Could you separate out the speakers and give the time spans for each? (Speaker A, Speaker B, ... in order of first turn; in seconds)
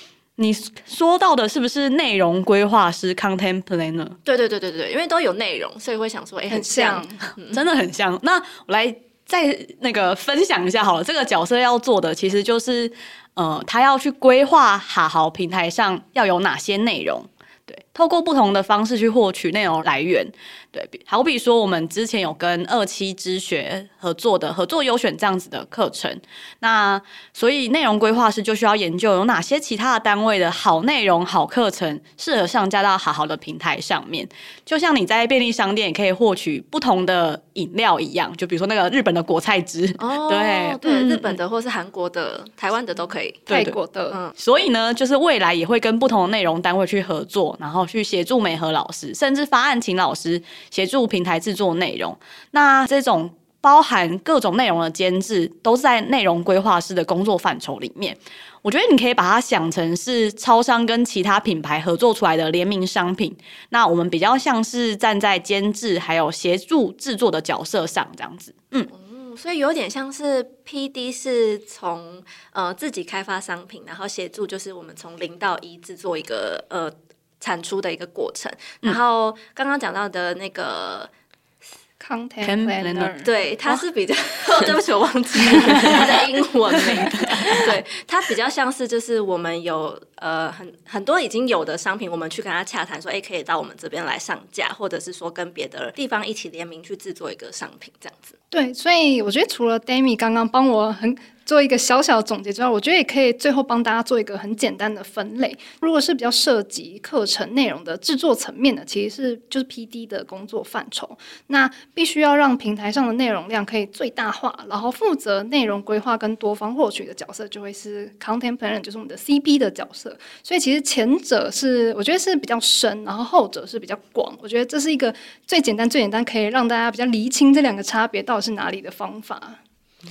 Speaker A: 0.4-4.2, 7.5-41.4, 43.5-43.8, 44.4-68.9, 82.4-83.1, 86.9-87.7
Speaker B: 4.2-7.6, 40.0-43.5, 68.9-81.1, 83.2-98.3
Speaker C: 6.5-7.2, 43.5-44.2, 82.0-83.3, 98.5-129.6